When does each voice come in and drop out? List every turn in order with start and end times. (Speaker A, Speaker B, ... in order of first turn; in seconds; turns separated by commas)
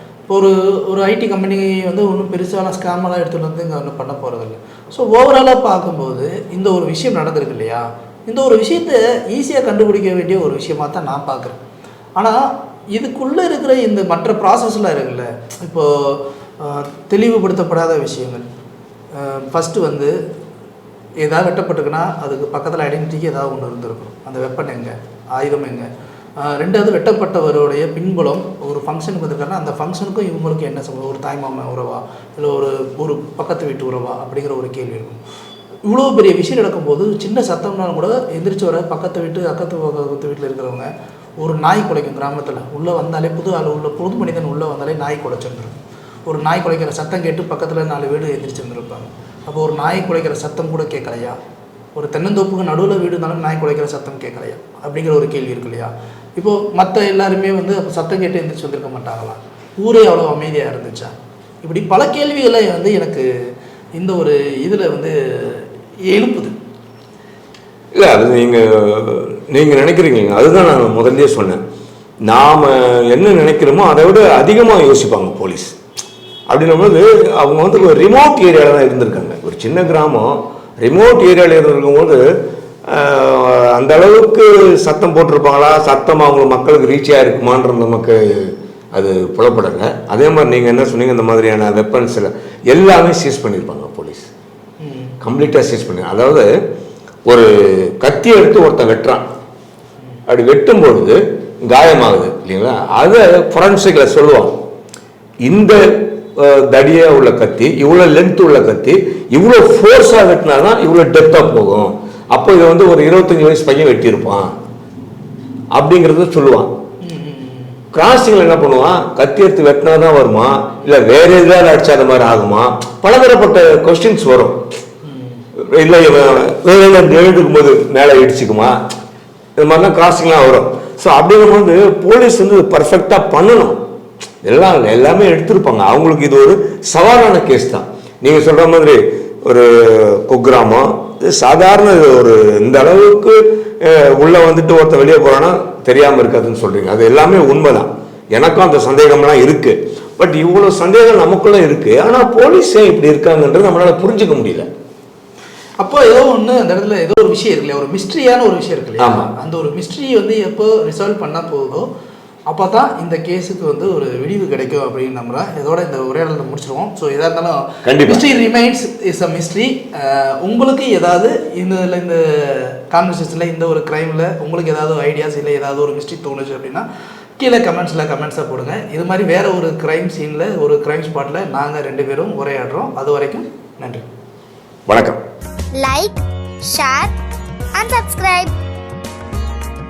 Speaker A: 0.3-11.6, Speaker A: 12.2-18.4, Speaker A: 19.1-20.1, Speaker A: 21.2-25.9, Speaker A: 26.4-35.2, Speaker A: 35.9-40.9, Speaker A: 41.4-51.4, Speaker A: 52.0-63.3, Speaker A: 64.0-66.5, Speaker B: 67.9-71.6, Speaker B: 72.2-75.8, Speaker B: 76.5-82.2, Speaker B: 82.9-94.3, Speaker A: 94.8-95.1, Speaker B: 95.2-96.5, Speaker B: 97.2-99.2, Speaker B: 100.3-104.6, Speaker B: 105.5-114.5, Speaker B: 115.7-116.7, Speaker A: 117.0-117.8, Speaker B: 117.9-124.6, Speaker A: 125.0-125.4, Speaker B: 125.6-128.8, Speaker B: 129.6-133.8, Speaker B: 134.4-154.7, Speaker A: 155.8-161.9, Speaker B: 159.0-159.3, Speaker A: 162.5-176.8, Speaker B: 167.8-168.3, Speaker A: 177.4-184.1, Speaker B: 184.9-185.2, Speaker C: 185.8-187.2, Speaker C: 187.8-188.5